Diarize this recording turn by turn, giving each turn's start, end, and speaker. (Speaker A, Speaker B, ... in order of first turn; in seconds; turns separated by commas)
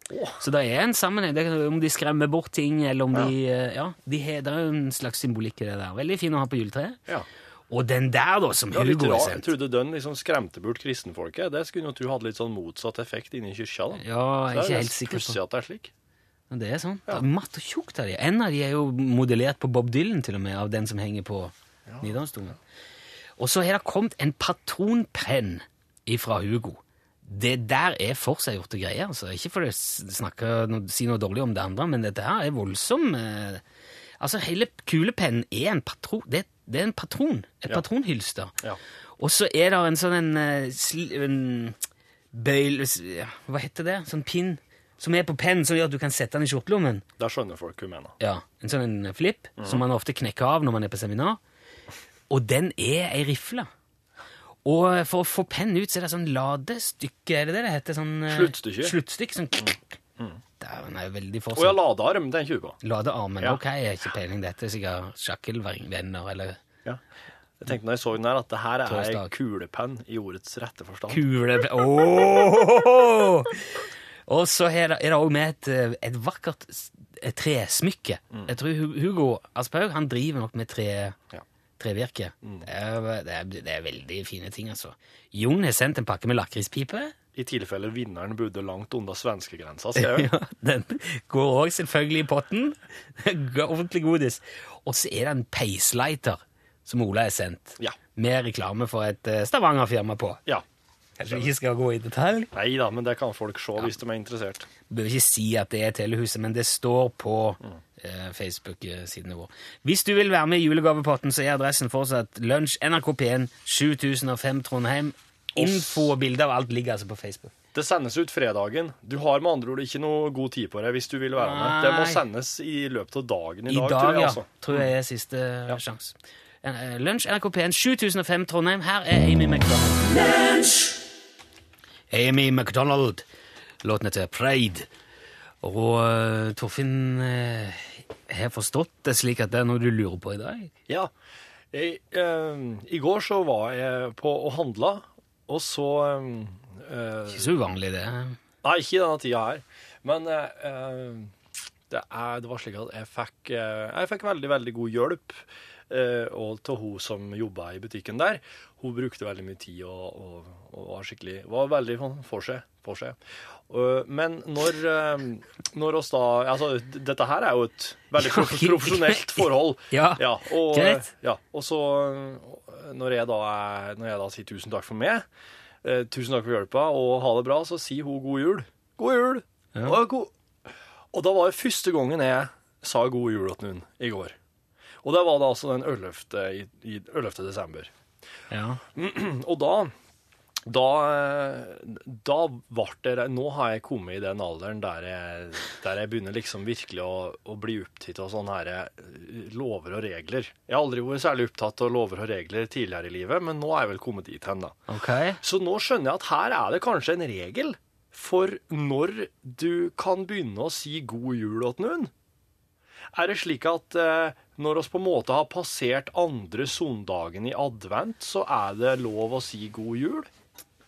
Speaker A: 0.1-0.4, Speaker B: 0.4-7.0, Speaker B: 7.7-9.5, Speaker A: 8.7-15.9, Speaker B: 14.0-15.4, Speaker B: 16.5-22.6, Speaker A: 21.9-22.1, Speaker B: 23.4-33.6, Speaker B: 34.2-38.5, Speaker B: 39.2-41.8, Speaker B: 42.3-47.0, Speaker A: 47.2-48.1, Speaker B: 48.2-51.4, Speaker B: 52.3-53.7, Speaker B: 54.6-59.8, Speaker A: 58.3-58.9, Speaker A: 59.6-60.4, Speaker B: 60.6-61.8, Speaker A: 61.5-62.8, Speaker B: 62.8-66.6, Speaker A: 67.6-71.2, Speaker B: 68.9-69.3, Speaker B: 71.1-73.6, Speaker B: 74.3-81.2, Speaker B: 81.8-87.1, Speaker A: 87.3-90.3, Speaker B: 90.0-100.4, Speaker B: 101.2-102.5, Speaker A: 102.5-104.7, Speaker B: 104.9-117.5, Speaker A: 115.5-116.1, Speaker A: 117.7-124.9, Speaker B: 121.4-122.2, Speaker B: 123.7-130.2, Speaker B: 132.1-133.2, Speaker B: 133.8-134.9, Speaker B: 135.6-140.7, Speaker A: 141.7-147.5, Speaker B: 147.3-148.4, Speaker A: 148.6-151.3, Speaker A: 151.9-163.2, Speaker A: 163.7-175.2, Speaker B: 168.2-171.1, Speaker A: 175.8-180.3, Speaker A: 181.1-184.3, Speaker A: 185.0-187.9, Speaker B: 188.5-188.8, Speaker A: 188.9-189.9, Speaker A: 190.7-204.8, Speaker B: 204.9-205.4, Speaker A: 205.4-212.1, Speaker A: 213.1-220.3